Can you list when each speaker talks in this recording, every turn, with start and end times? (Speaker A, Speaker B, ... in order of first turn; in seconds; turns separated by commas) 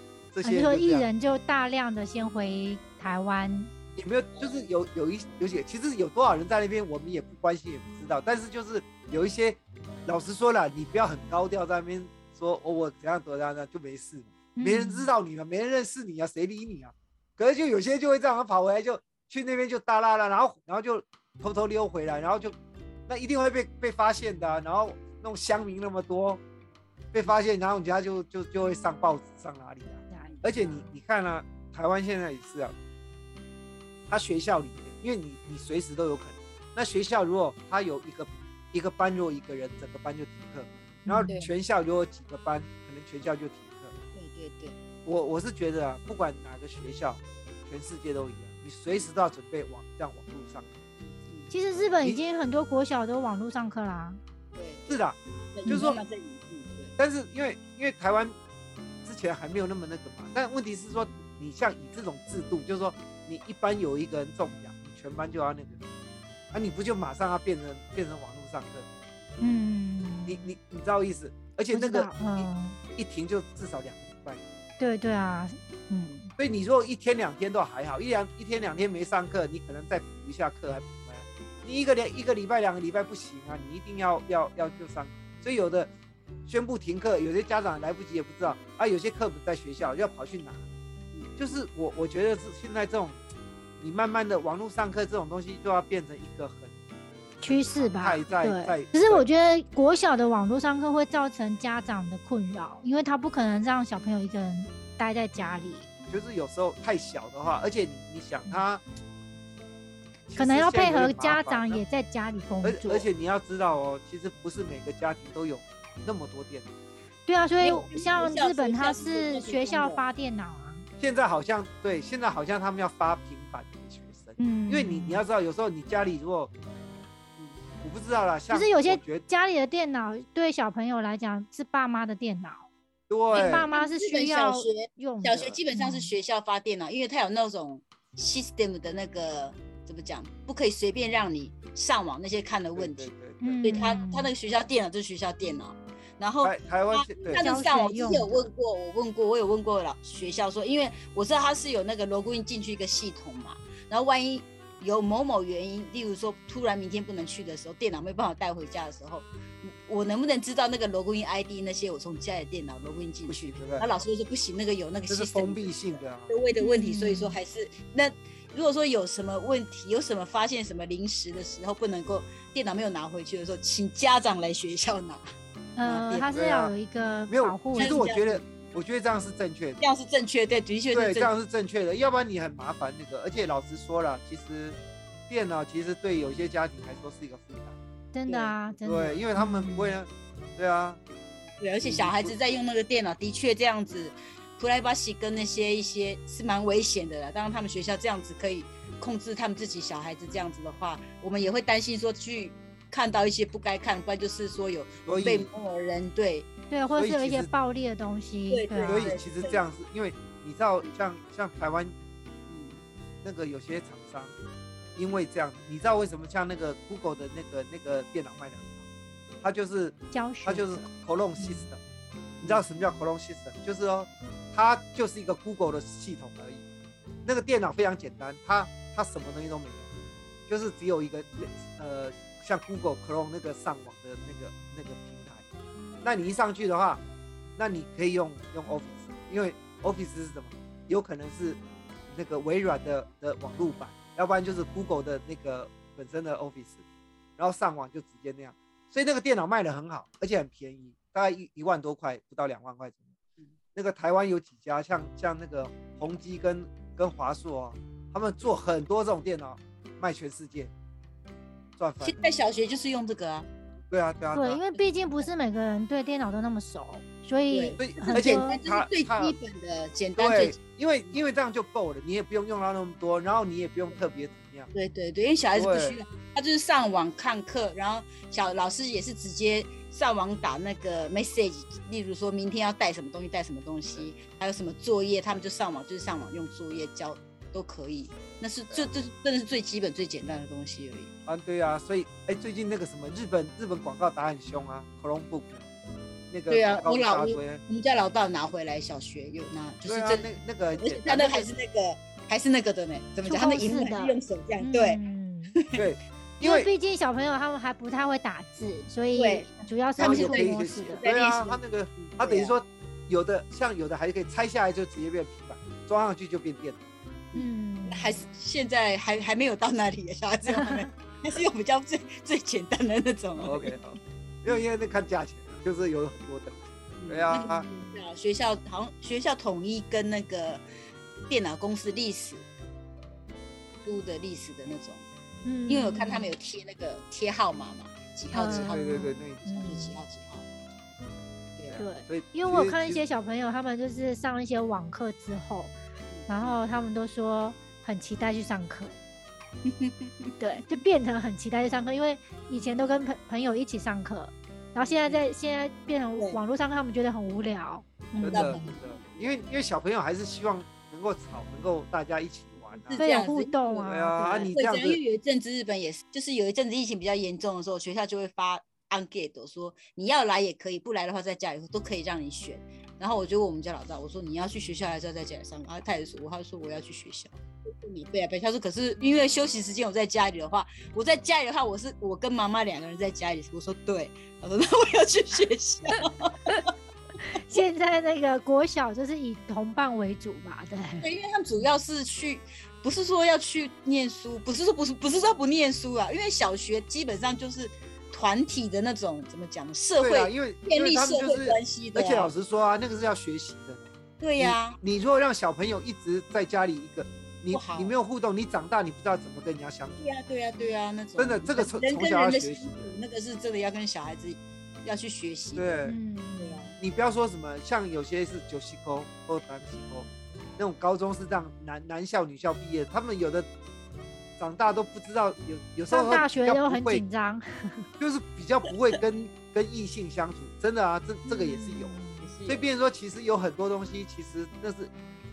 Speaker A: 0.3-1.1, Speaker B: 0.4-3.7, Speaker A: 4.0-22.6, Speaker B: 14.6-15.1, Speaker A: 23.1-26.4, Speaker A: 27.1-32.8, Speaker B: 30.1-30.8, Speaker A: 34.1-43.9, Speaker B: 41.0-41.4, Speaker C: 41.2-41.5, Speaker C: 44.1-44.8, Speaker A: 45.0-50.7, Speaker C: 51.0-51.5, Speaker B: 51.5-54.2, Speaker C: 54.5-55.0, Speaker A: 54.9-56.0, Speaker C: 55.5-56.9, Speaker A: 57.0-58.4, Speaker A: 59.0-65.8, Speaker A: 66.5-68.8, Speaker B: 69.4-70.5, Speaker A: 70.2-74.4, Speaker B: 71.7-72.8, Speaker B: 74.8-76.3, Speaker A: 76.4-85.9, Speaker A: 86.5-90.6, Speaker A: 91.4-93.2, Speaker A: 93.8-96.8, Speaker A: 97.4-99.2, Speaker B: 97.4-105.9, Speaker A: 106.1-108.8, Speaker A: 110.3-111.8, Speaker B: 110.3-113.0, Speaker A: 112.6-116.7, Speaker B: 117.3-120.9, Speaker C: 117.6-120.0, Speaker A: 121.0-126.5, Speaker B: 124.4-125.2, Speaker A: 127.8-129.2, Speaker B: 128.5-132.7, Speaker A: 133.1-133.7, Speaker B: 133.3-136.1, Speaker C: 133.3-143.1, Speaker A: 142.7-143.8, Speaker B: 143.4-144.3, Speaker C: 143.6-175.2, Speaker A: 146.4-147.4, Speaker B: 147.3-148.5, Speaker A: 163.3-163.9, Speaker A: 165.1-166.3, Speaker B: 166.6-167.4, Speaker B: 175.8-178.0, Speaker C: 175.8-176.3, Speaker A: 176.3-176.7, Speaker A: 177.3-179.8, Speaker C: 177.7-178.4, Speaker C: 179.8-181.3, Speaker A: 180.9-184.8, Speaker A: 185.3-187.8, Speaker B: 188.1-190.0, Speaker C: 188.3-188.6, Speaker A: 188.8-191.0, Speaker C: 191.6-206.5, Speaker A: 191.8-192.3, Speaker A: 205.1-205.5, Speaker B: 206.7-209.2, Speaker A: 206.9-207.5, Speaker C: 208.5-209.6, Speaker A: 208.8-211.9, Speaker C: 212.5-212.8, Speaker A: 213.2-214.3, Speaker A: 214.9-218.8, Speaker A: 219.4-221.8, Speaker B: 220.1-220.9, Speaker B: 221.4-221.7, Speaker A: 222.4-226.6, Speaker C: 222.4-222.7, Speaker A: 227.2-229.9, Speaker A: 230.5-235.4, Speaker A: 236.0-237.0, Speaker A: 237.6-246.8, Speaker A: 247.4-253.1, Speaker A: 253.7-260.7, Speaker A: 261.8-262.2, Speaker C: 262.0-263.5, Speaker A: 263.9-264.6, Speaker B: 264.3-268.6, Speaker C: 264.8-265.2, Speaker C: 267.5-270.6, Speaker A: 267.8-269.3, Speaker A: 270.2-274.7, Speaker C: 274.7-291.1, Speaker A: 275.5-276.0, Speaker A: 291.3-295.6, Speaker A: 296.3-297.6, Speaker C: 296.5-305.0, Speaker A: 299.9-301.5, Speaker B: 303.2-305.5, Speaker C: 305.5-305.8, Speaker A: 305.8-306.7, Speaker B: 306.4-311.0, Speaker C: 309.1-312.5, Speaker A: 310.0-316.8, Speaker C: 317.3-323.7, Speaker B: 317.3-318.2, Speaker A: 323.4-327.6, Speaker C: 327.0-330.6, Speaker B: 327.4-327.9, Speaker C: 331.3-332.4, Speaker C: 333.8-335.1, Speaker B: 335.4-336.3, Speaker C: 335.7-340.4, Speaker B: 338.3-340.0, Speaker A: 338.4-339.4, Speaker C: 341.6-341.8, Speaker A: 341.6-343.0, Speaker B: 341.8-345.7, Speaker C: 346.1-346.6, Speaker B: 346.3-348.9, Speaker C: 349.6-350.3, Speaker B: 350.4-358.6, Speaker C: 354.8-355.2, Speaker A: 358.2-363.0, Speaker C: 358.2-359.3, Speaker C: 362.7-363.7, Speaker B: 363.0-364.5, Speaker A: 363.8-365.0, Speaker C: 364.3-386.6, Speaker B: 387.2-391.1, Speaker C: 391.0-402.3, Speaker A: 400.0-410.0, Speaker C: 404.2-404.8, Speaker C: 407.5-407.9, Speaker C: 410.0-415.8, Speaker A: 411.2-412.9, Speaker A: 415.6-416.0, Speaker B: 415.9-416.7, Speaker C: 416.4-416.8, Speaker A: 416.8-423.5, Speaker A: 424.4-427.0, Speaker B: 425.9-427.8, Speaker A: 428.0-434.9, Speaker B: 431.2-432.3, Speaker C: 432.2-432.6